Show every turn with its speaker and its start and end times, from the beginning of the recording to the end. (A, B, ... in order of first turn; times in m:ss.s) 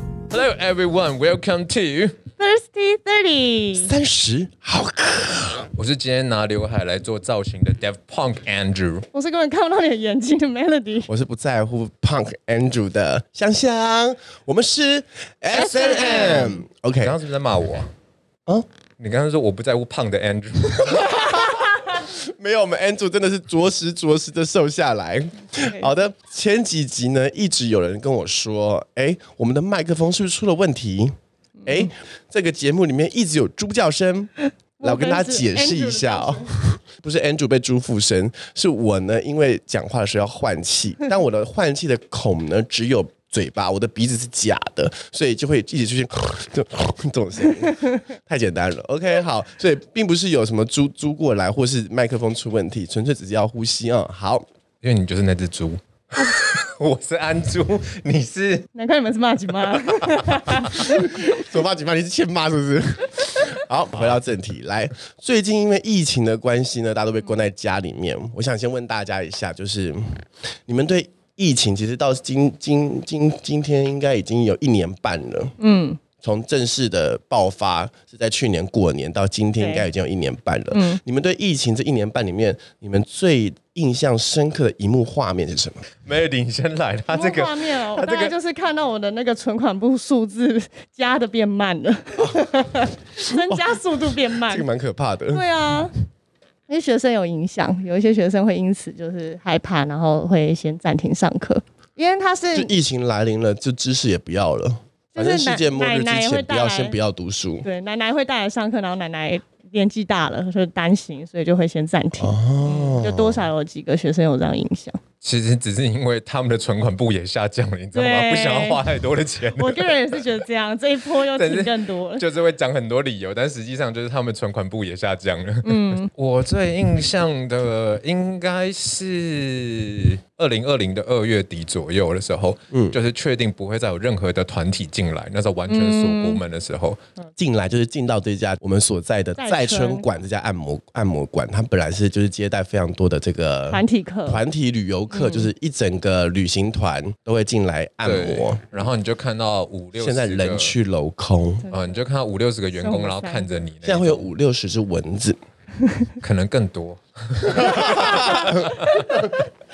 0:00.3-0:02.2 A
0:02.4-0:03.9 B
0:03.7-0:05.7 C
0:05.8-0:09.0 A
0:09.1-0:11.1 B
0:11.1-0:17.2 C
0:15.5-0:16.6 B
0:16.0-0:17.9 A
0:19.0-0:21.0 A
0:20.7-0:31.1 C
0:25.6-0:25.9 B
0:31.6-0:31.9 B
0:31.6-0:34.3 C
0:34.8-0:36.4 B
0:34.8-0:54.4 C
0:54.8-0:58.7 A
0:58.7-1:01.3 B
0:59.6-1:00.8 A
1:00.8-1:15.5 C
1:15.6-1:16.0 B
1:16.2-1:25.8 C
1:19.6-1:19.8 B
1:20.7-1:21.0 B
1:26.0-1:28.3 A
1:27.1-1:34.7 B
1:34.5-1:35.5 C
1:35.3-1:35.9 B
1:36.7-1:42.7 B
1:42.5-1:47.6 C
1:45.1-1:47.0 B
1:47.6-1:52.4 B
1:52.1-1:53.5 C
1:52.6-1:53.0 A
1:53.0-1:55.0 B
1:55.2-2:00.4 A
1:57.9-1:58.8 B
1:59.6-2:02.2 B
2:01.2-2:17.0 A
2:05.6-2:06.1 B
2:12.7-2:13.0 C
2:15.7-2:16.4 B
2:17.4-2:28.6 C
2:19.4-2:20.1 B
2:23.7-2:24.4 B
2:25.1-2:25.5 B
2:28.0-2:30.8 A
2:30.0-2:31.7 C
2:31.7-2:34.3 A
2:32.7-2:33.5 B
2:33.8-2:35.4 C
2:36.2-2:39.2 A
2:37.5-2:39.2 C
2:38.0-2:38.5 B